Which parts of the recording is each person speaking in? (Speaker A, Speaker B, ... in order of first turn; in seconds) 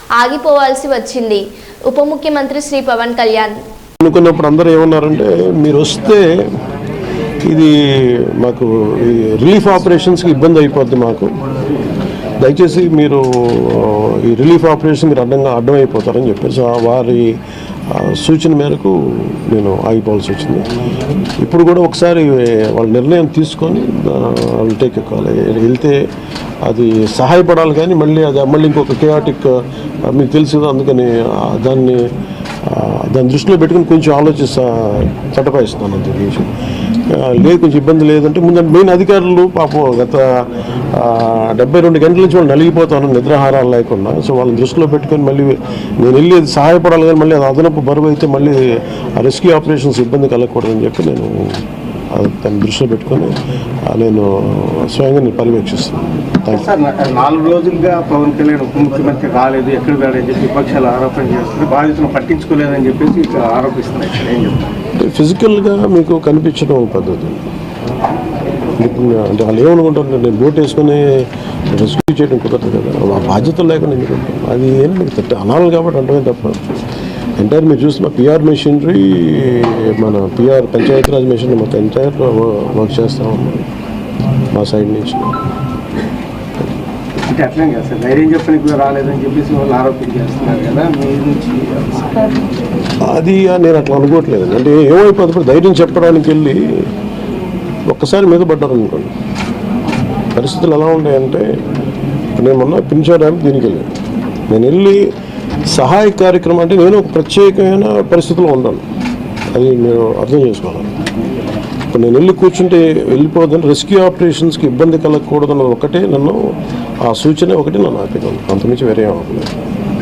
Speaker A: 0.2-3.6
Speaker B: 4.0-6.4, 7.4-11.3, 12.4-17.4, 17.9-20.7, 21.4-26.0, 26.6-32.1, 32.6-36.5, 37.1-56.6, 65.0-67.4, 68.8-76.6, 77.4-83.7, 84.5-85.4, 93.0-96.9, 97.9-99.1, 100.3-101.5, 102.3-103.9, 104.5-105.1, 105.7-108.8, 109.5-110.9, 111.9-119.5
Speaker C: 56.4-64.7, 87.2-92.4